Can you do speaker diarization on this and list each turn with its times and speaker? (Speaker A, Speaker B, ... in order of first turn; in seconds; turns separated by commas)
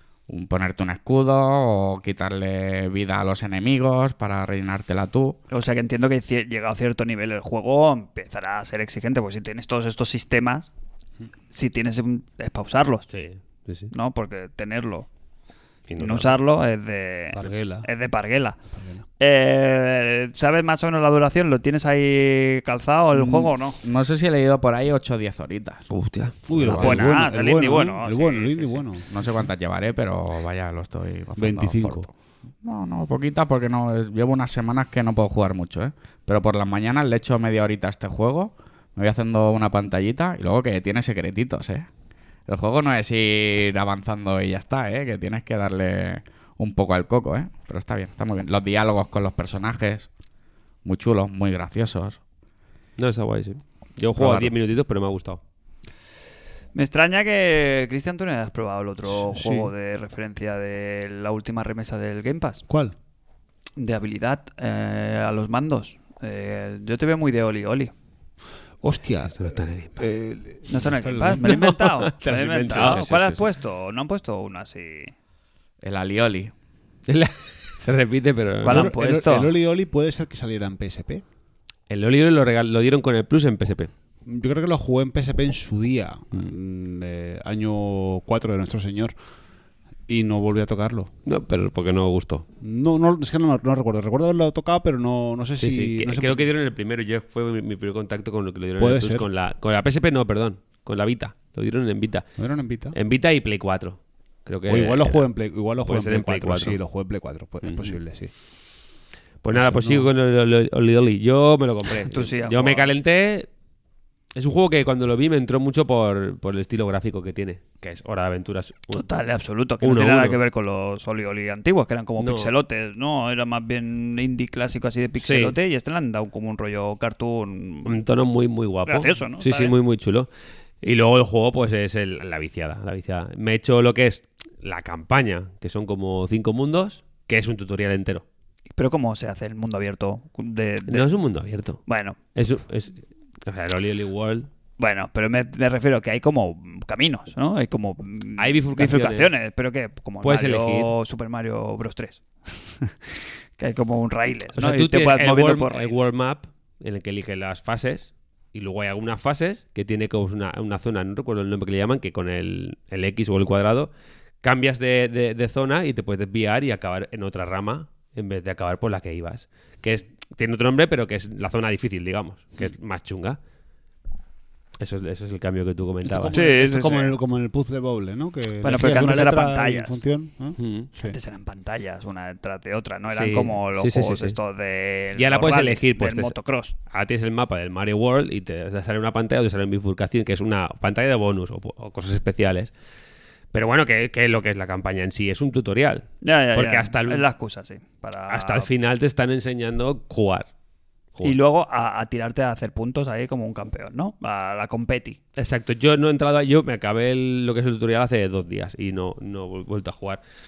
Speaker A: 0.3-5.4, Speaker B: 5.5-10.7, Speaker B: 11.5-13.1, Speaker C: 13.1-13.9, Speaker B: 13.9-15.1, Speaker C: 15.9-16.4, Speaker B: 16.0-18.6, Speaker D: 17.3-17.9, Speaker D: 18.7-19.0, Speaker B: 19.2-23.8, Speaker A: 23.1-25.9, Speaker C: 25.9-26.4, Speaker D: 26.5-29.1, Speaker A: 26.5-27.1, Speaker B: 26.7-28.9, Speaker A: 29.1-32.1, Speaker D: 31.4-32.1, Speaker A: 32.6-41.9, Speaker A: 42.5-50.1, Speaker A: 50.9-52.2, Speaker C: 53.0-55.4, Speaker A: 54.2-54.5, Speaker B: 56.8-62.6, Speaker D: 59.0-59.7, Speaker D: 62.7-63.0, Speaker B: 63.8-67.9, Speaker D: 68.8-71.7, Speaker C: 69.4-70.0, Speaker B: 70.7-75.1, Speaker C: 71.4-73.4, Speaker A: 75.8-76.5, Speaker C: 77.1-78.9, Speaker B: 78.6-79.5, Speaker D: 78.6-81.2, Speaker C: 81.9-83.9, Speaker D: 84.2-89.1, Speaker D: 90.1-91.1, Speaker C: 91.3-92.5, Speaker D: 92.6-96.5, Speaker C: 95.6-102.3, Speaker D: 98.8-99.2, Speaker D: 102.4-103.0, Speaker C: 102.9-105.2, Speaker D: 104.7-108.3, Speaker C: 105.8-106.8, Speaker C: 107.6-107.9, Speaker C: 109.4-113.5, Speaker D: 109.5-110.1, Speaker B: 112.1-112.9, Speaker C: 114.3-119.0, Speaker B: 118.9-128.0, Speaker C: 119.8-120.4, Speaker C: 122.2-122.5, Speaker C: 125.2-125.6, Speaker C: 127.9-130.3, Speaker B: 128.9-129.8, Speaker C: 130.8-138.2, Speaker B: 138.7-141.1, Speaker C: 140.9-141.8, Speaker B: 141.9-142.2, Speaker C: 142.3-144.5, Speaker B: 144.8-155.9, Speaker C: 148.4-149.3, Speaker C: 150.2-150.9, Speaker C: 154.6-163.9, Speaker C: 164.4-173.4, Speaker C: 174.8-176.4, Speaker D: 176.0-181.2, Speaker B: 176.3-177.2, Speaker B: 178.6-180.0, Speaker C: 180.6-180.9, Speaker B: 181.0-186.8, Speaker C: 183.1-184.4, Speaker C: 185.2-186.4, Speaker C: 186.9-192.7, Speaker C: 193.5-197.3, Speaker B: 196.2-198.7, Speaker C: 198.3-200.5, Speaker B: 201.2-205.2, Speaker C: 205.4-210.2